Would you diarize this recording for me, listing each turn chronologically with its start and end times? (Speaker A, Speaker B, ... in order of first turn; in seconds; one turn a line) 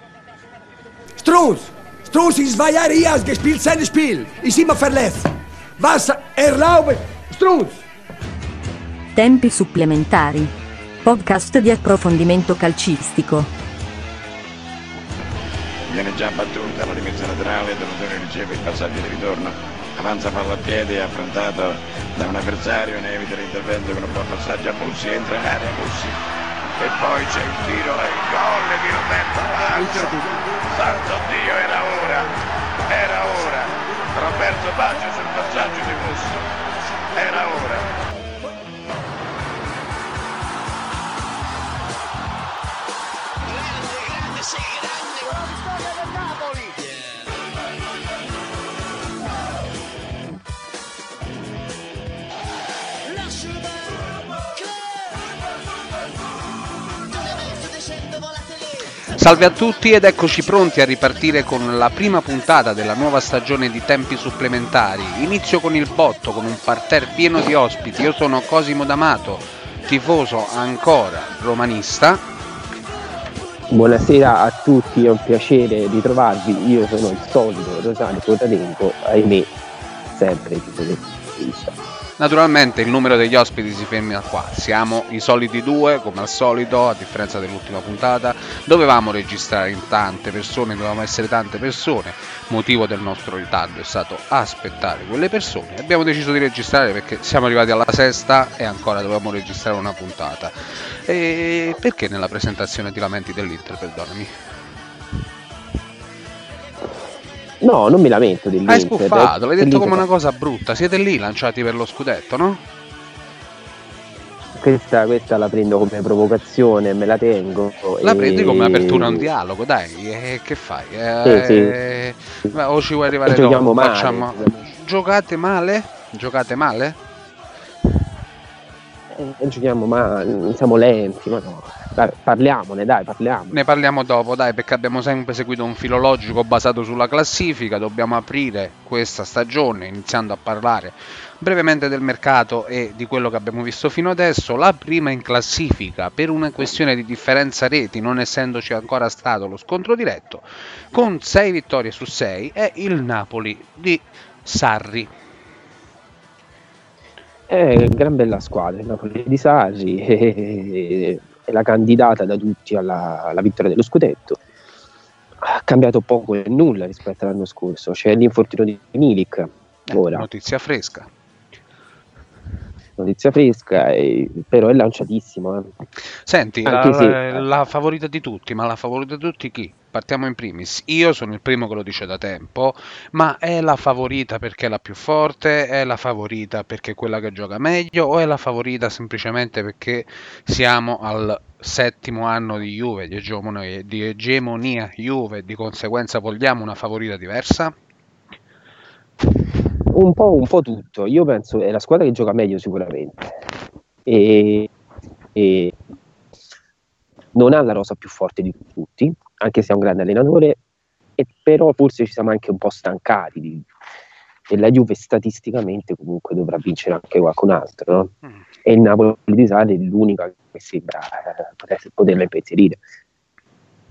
Speaker A: 1.2-7.8
Speaker B: 9.2-10.5
Speaker B: 11.0-13.5
Speaker C: 15.9-26.2
Speaker C: 26.8-32.4
Speaker C: 32.9-36.5
Speaker C: 37.1-37.9
Speaker D: 59.1-72.2
Speaker E: 73.7-79.5
Speaker E: 80.1-81.8
Speaker D: 82.2-104.3
Speaker E: 107.6-110.0
Speaker D: 108.7-112.7
Speaker E: 114.6-119.3
Speaker D: 118.0-127.0
Speaker E: 121.2-121.8
Speaker E: 123.2-124.6
Speaker E: 129.1-133.6
Speaker D: 133.5-155.1
Speaker E: 157.5-164.4
Speaker E: 165.4-170.3
Speaker D: 169.9-171.1
Speaker E: 173.0-175.7
Speaker D: 176.3-197.7
Speaker E: 176.7-177.4
Speaker E: 199.9-203.4
Speaker E: 204.1-204.7
Speaker E: 205.3-205.8
Speaker E: 207.3-210.6
Speaker E: 211.2-213.7
Speaker E: 214.5-218.1
Speaker E: 218.6-222.8